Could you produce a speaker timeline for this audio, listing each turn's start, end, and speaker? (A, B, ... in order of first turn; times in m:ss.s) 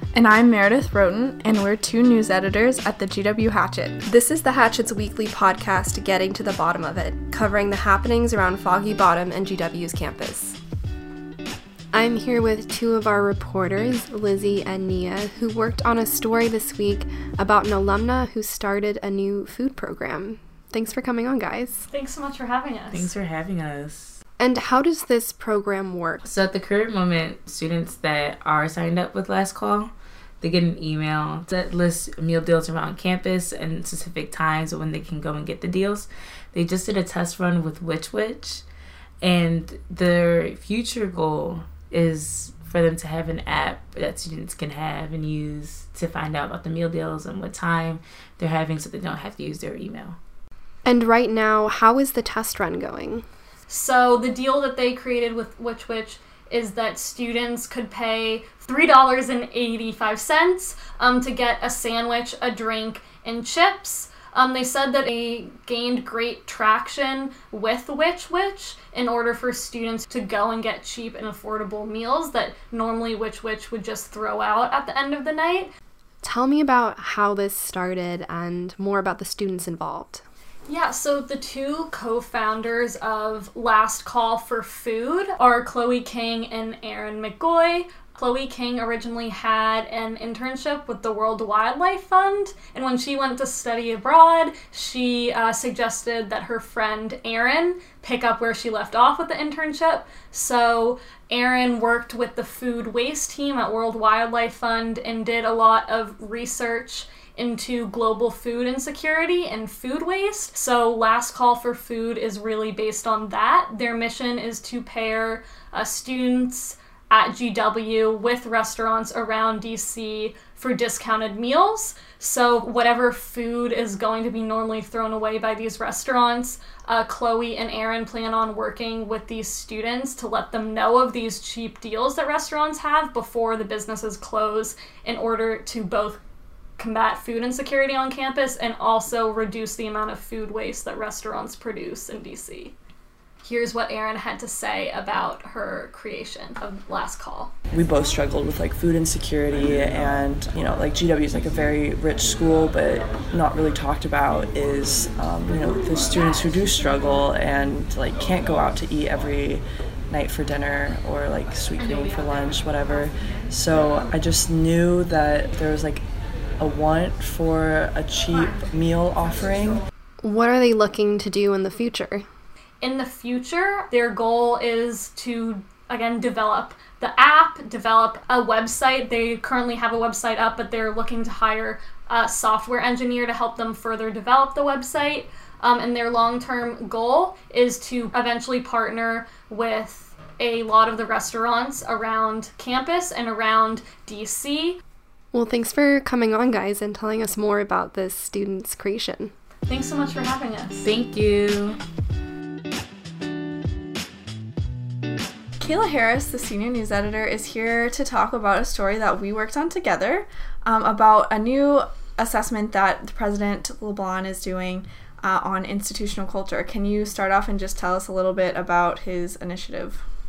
0:00.1-0:04.0 A
0:04.0-0:10.6 B
0:11.9-0:21.9 B
0:21.9-0:23.1 C
0:22.9-0:24.2 D
0:24.4-0:26.2 B
0:26.2-0:38.6 D
0:39.2-0:50.2 D
0:50.8-0:53.2 B
0:53.7-1:15.7 C
1:16.2-1:20.2 B
1:20.7-2:16.2 C
2:16.8-2:22.7 C
2:23.4-2:27.5 C
2:27.7-2:46.0 E
2:46.6-2:49.8 E
2:50.2-2:52.2 B
2:52.8-3:14.8 C
3:15.3-3:19.3 B
3:19.7-3:20.9 C
3:20.8-3:21.8 D
3:25.6-3:40.0 A